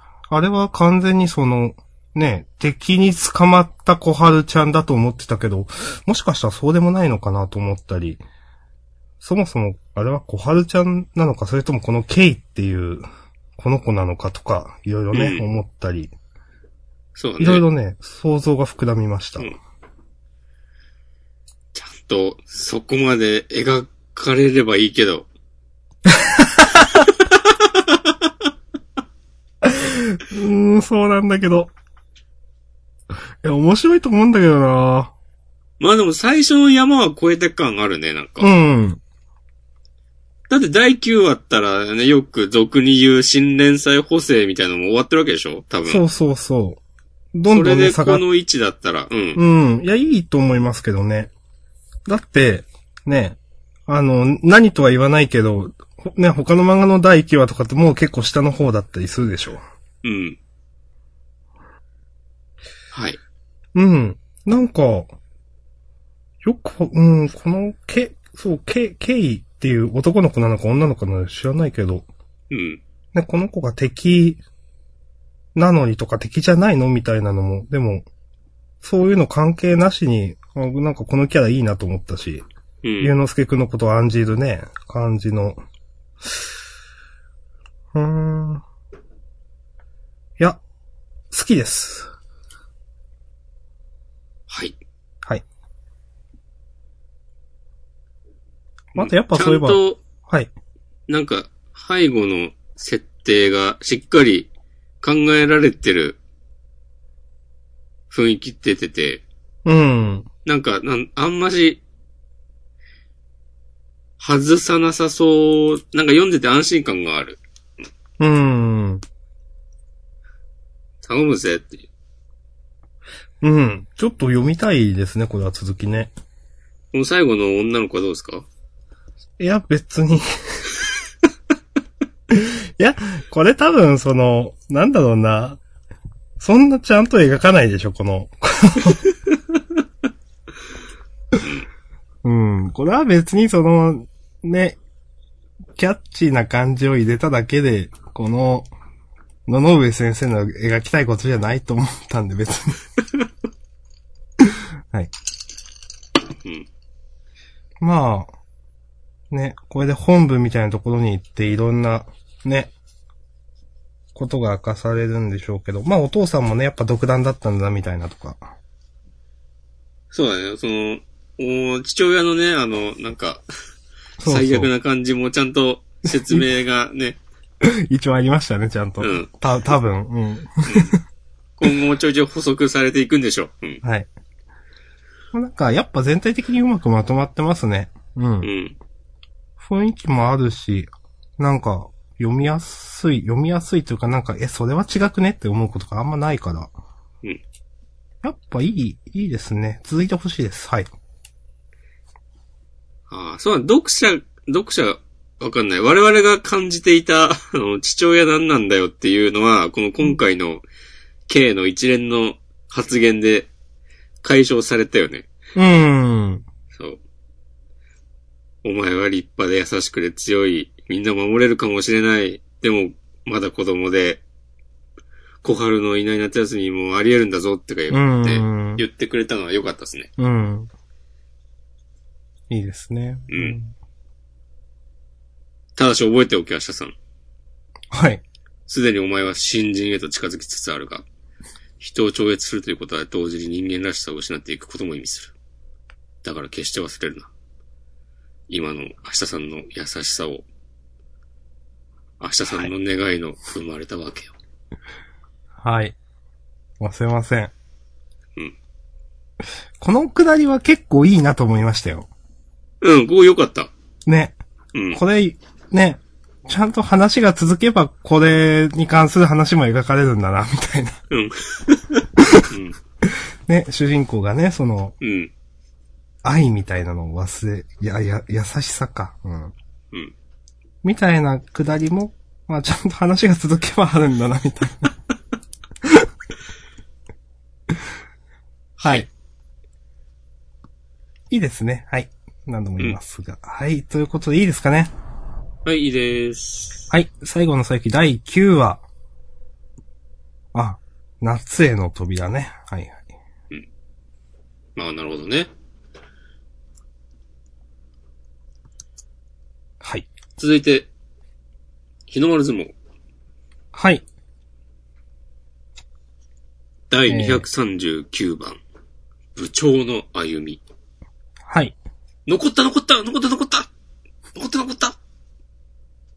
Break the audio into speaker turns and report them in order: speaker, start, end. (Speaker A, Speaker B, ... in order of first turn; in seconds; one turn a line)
Speaker A: 0.3-8.2
Speaker A: 9.2-13.1
Speaker A: 13.6-16.1
Speaker B: 15.1-15.5
Speaker B: 17.2-17.7
Speaker A: 17.4-19.5
Speaker B: 21.7-25.3
Speaker A: 26.1-26.9
Speaker B: 27.3-28.0
Speaker A: 29.6-31.7
Speaker A: 33.4-35.1
Speaker B: 35.8-38.5
Speaker A: 38.4-39.0
Speaker B: 40.5-46.0
Speaker A: 45.9-46.8
Speaker A: 47.3-48.2
Speaker B: 47.5-49.4
Speaker A: 49.4-51.3
Speaker A: 52.1-59.6
Speaker B: 60.0-60.4
Speaker B: 62.9-63.2
Speaker A: 63.7-65.1
Speaker A: 66.4-72.1
Speaker B: 72.5-72.8
Speaker A: 73.1-74.4
Speaker A: 75.5-78.1
Speaker A: 78.8-82.5
Speaker B: 82.8-83.2
Speaker A: 83.0-85.6
Speaker A: 87.9-88.6
Speaker A: 91.3-92.1
Speaker B: 94.5-94.8
Speaker B: 99.0-100.0
Speaker A: 99.0-100.5
Speaker B: 101.1-104.5
Speaker B: 105.0-106.2
Speaker B: 108.1-109.2
Speaker A: 109.7-110.3
Speaker B: 110.5-111.8
Speaker B: 114.2-117.4
Speaker A: 118.2-119.0
Speaker B: 121.0-121.8
Speaker A: 123.4-126.1
Speaker B: 126.9-128.5
Speaker A: 129.4-130.6
Speaker A: 132.3-135.6
Speaker A: 136.4-139.0
Speaker A: 142.2-144.8
Speaker A: 145.8-148.7
Speaker A: 149.5-152.8
Speaker A: 154.4-155.1
Speaker A: 157.8-158.3
Speaker A: 159.3-162.7
Speaker A: 164.1-168.4
Speaker B: 170.1-173.4
Speaker A: 174.2-174.7
Speaker B: 174.2-177.2
Speaker A: 176.2-176.4
Speaker A: 177.6-181.0
Speaker B: 179.0-179.3
Speaker B: 180.7-181.0
Speaker B: 181.6-183.8
Speaker A: 183.8-184.1
Speaker A: 185.3-188.5
Speaker B: 188.4-188.8
Speaker A: 189.6-196.7
Speaker A: 198.2-200.9
Speaker B: 203.1-210.6
Speaker B: 211.3-213.5
Speaker B: 214.2-215.3
Speaker A: 215.6-216.4
Speaker B: 216.7-217.0
Speaker B: 218.6-224.2
Speaker B: 225.4-230.1
Speaker A: 227.9-228.8
Speaker A: 230.2-230.7
Speaker A: 232.5-233.7
Speaker B: 233.3-233.6
Speaker B: 235.8-236.9
Speaker A: 237.9-238.2
Speaker B: 238.7-241.1
Speaker B: 241.8-245.3
Speaker B: 246.2-247.3
Speaker B: 248.5-250.4
Speaker B: 252.2-254.3
Speaker A: 255.6-256.0
Speaker A: 256.8-257.5
Speaker A: 259.8-262.1
Speaker B: 262.8-263.7
Speaker A: 264.1-264.4
Speaker B: 264.8-265.0
Speaker A: 264.9-271.0
Speaker B: 271.1-272.8
Speaker A: 272.2-272.5
Speaker A: 273.5-275.0
Speaker B: 275.0-275.3
Speaker A: 276.2-279.5
Speaker A: 280.8-284.9
Speaker B: 288.8-289.1
Speaker A: 291.3-294.9
Speaker B: 295.6-296.9
Speaker A: 296.9-298.8
Speaker A: 300.5-303.0
Speaker B: 304.8-305.5
Speaker A: 309.8-310.1
Speaker B: 310.4-310.9
Speaker B: 312.1-312.7
Speaker A: 313.7-314.0
Speaker B: 316.9-318.6
Speaker A: 317.1-317.4
Speaker B: 319.4-320.6
Speaker A: 321.5-321.8
Speaker B: 322.3-323.7
Speaker B: 324.4-325.0